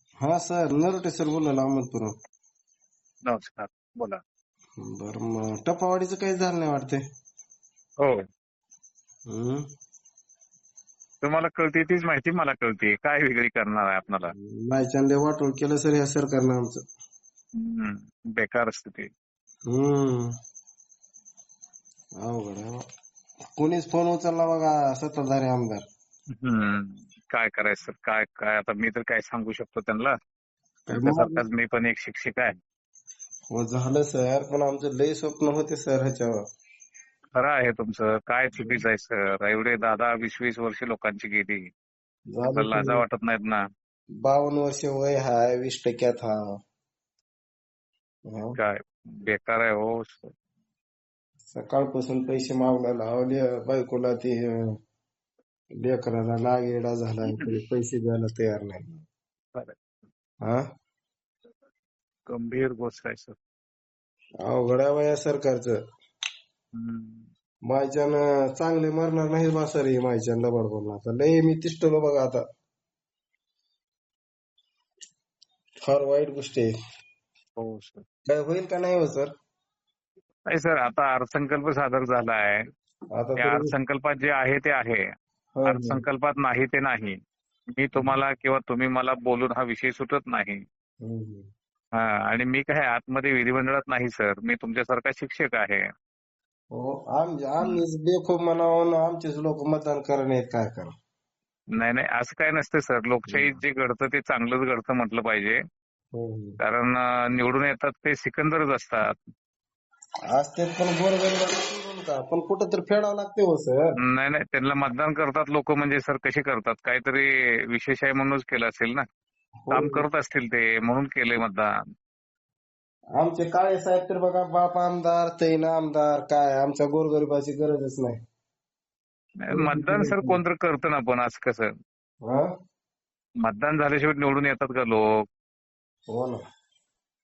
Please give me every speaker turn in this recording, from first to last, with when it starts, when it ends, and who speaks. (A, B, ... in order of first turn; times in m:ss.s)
0:00.2-0:02.1 A
0:03.3-0:04.2 B
0:04.8-0:07.0 A
0:09.3-0:09.6 A
0:11.2-0:14.3 B
0:14.4-0:16.8 A
0:17.6-0:19.1 B
0:19.6-0:20.3 A
0:22.2-0:22.8 A
0:23.6-0:25.8 A
0:26.4-0:30.1 B
0:30.9-0:31.4 A
0:30.9-0:32.5 B
0:33.5-0:36.4 A
0:37.3-0:41.6 B
0:42.3-0:43.0 A
0:42.5-0:43.6 B
0:44.2-0:46.5 A
0:48.3-0:48.6 A
0:48.6-0:50.3 B
0:51.5-0:54.8 A
0:55.8-0:59.0 A
0:57.3-0:57.5 B
1:02.3-1:03.4 B
1:04.4-1:05.8 A
1:06.7-1:07.3 B
1:07.6-1:12.4 A
1:15.8-1:16.7 A
1:17.6-1:18.0 B
1:18.3-1:19.3 A
1:20.5-1:22.6 B
1:23.1-1:23.7 A
1:23.4-1:25.0 B
1:25.6-1:26.0 A
1:25.6-1:27.1 B
1:27.7-1:30.6 B
1:31.0-1:31.5 A
1:32.0-1:35.8 B
1:36.7-1:40.9 A
1:41.8-1:45.6 B
1:43.3-1:43.6 A
1:46.1-1:46.6 A
1:46.6-1:49.2 B
1:50.3-1:54.0 A
1:54.1-1:59.0 B
1:59.7-2:00.0 A
1:59.7-2:01.7 B
2:03.2-2:08.2 A
2:09.4-2:11.7 B
2:09.5-2:10.4 A
2:12.2-2:12.5 A
2:13.4-2:15.0 B
2:16.1-2:16.4 A